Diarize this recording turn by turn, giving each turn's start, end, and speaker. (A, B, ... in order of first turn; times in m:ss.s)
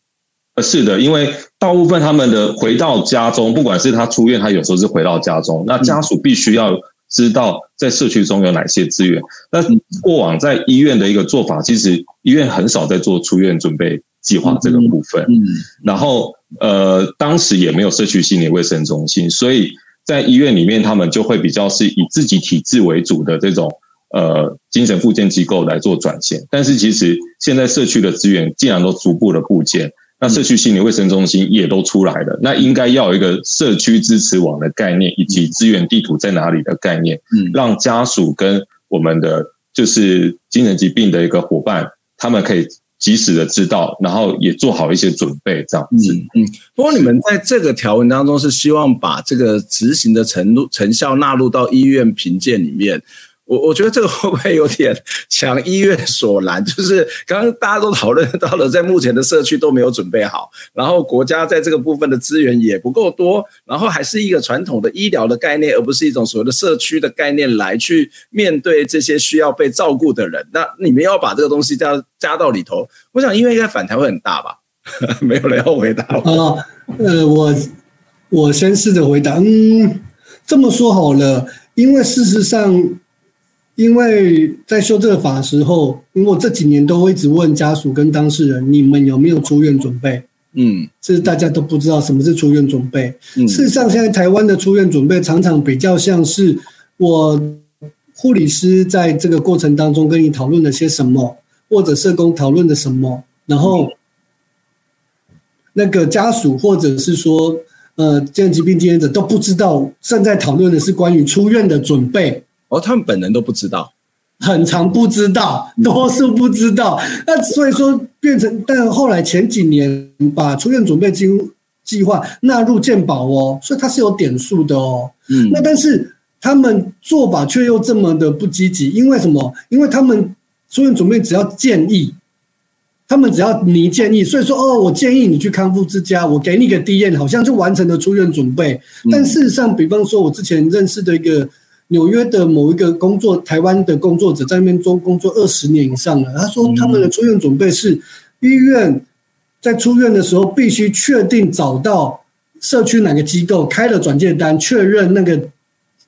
0:00.6-0:46.2 A
0:14.5-0:15.5 B
0:45.9-1:16.4 B
1:16.2-1:17.7 C
1:18.3-1:23.0 C
1:23.8-1:30.2 C
1:30.5-1:30.9 B
1:31.0-1:43.9 C
1:33.4-1:33.7 B
1:45.7-1:52.4 C
1:52.7-1:53.9 B
1:54.4-2:12.2 C
2:05.3-2:05.6 B
2:13.1-2:29.0 C
2:19.0-2:19.3 B
2:26.6-2:27.0 B
2:29.6-2:35.5 C